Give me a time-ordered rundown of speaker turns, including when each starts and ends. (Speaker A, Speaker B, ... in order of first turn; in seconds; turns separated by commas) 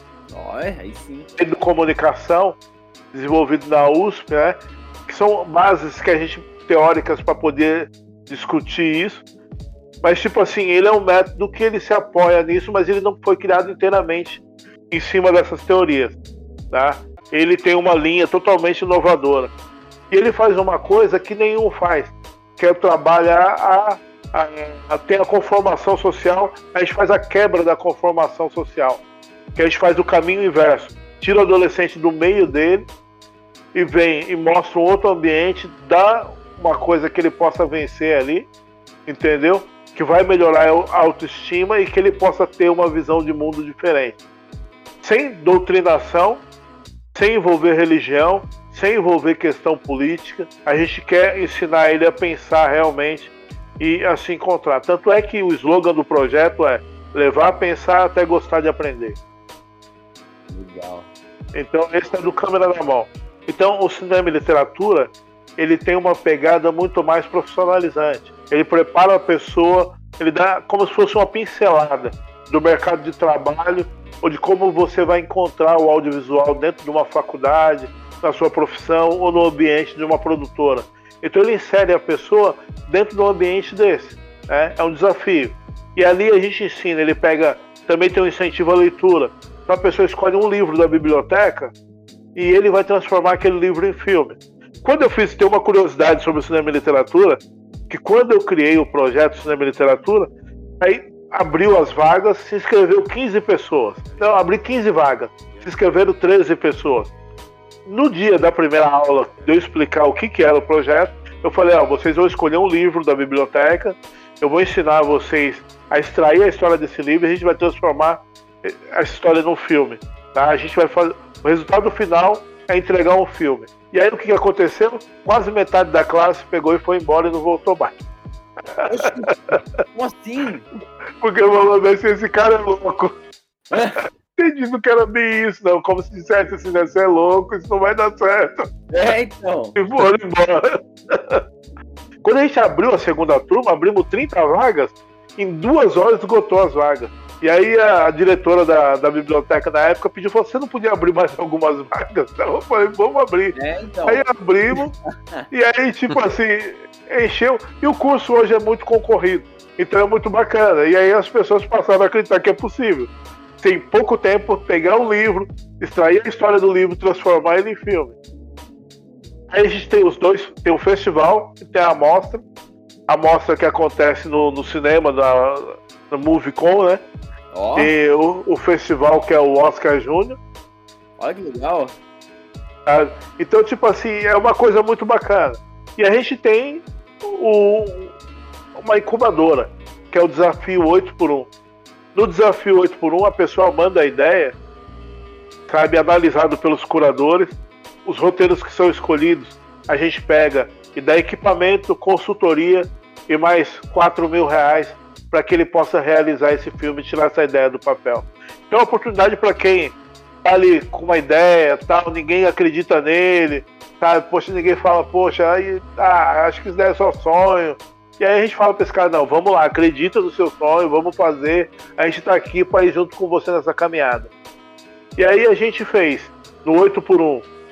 Speaker A: 0.3-1.3, Speaker B: 1.4-2.6, Speaker B: 3.1-9.2, Speaker B: 10.0-16.2, Speaker B: 16.7-19.5, Speaker B: 20.1-29.0, Speaker B: 29.6-32.9, Speaker B: 33.7-38.5, Speaker B: 39.1-44.2, Speaker B: 45.0-46.5, Speaker B: 47.1-59.2, Speaker A: 60.5-61.1, Speaker B: 61.5-91.7, Speaker B: 92.3-107.1, Speaker B: 107.9-127.9, Speaker B: 128.8-129.6, Speaker A: 128.9-130.7, Speaker B: 131.2-133.2, Speaker A: 133.7-134.0, Speaker B: 134.4-138.6, Speaker A: 138.9-139.8, Speaker B: 139.8-141.4, Speaker B: 142.2-153.6, Speaker A: 153.6-155.4, Speaker B: 154.1-154.9, Speaker B: 155.5-168.2, Speaker B: 169.5-172.4, Speaker B: 173.1-177.0, Speaker A: 177.5-177.9, Speaker B: 177.8-180.4, Speaker A: 181.2-182.0, Speaker B: 182.9-188.1, Speaker B: 188.8-191.5, Speaker B: 192.1-194.6, Speaker B: 195.7-224.3, Speaker B: 225.2-227.5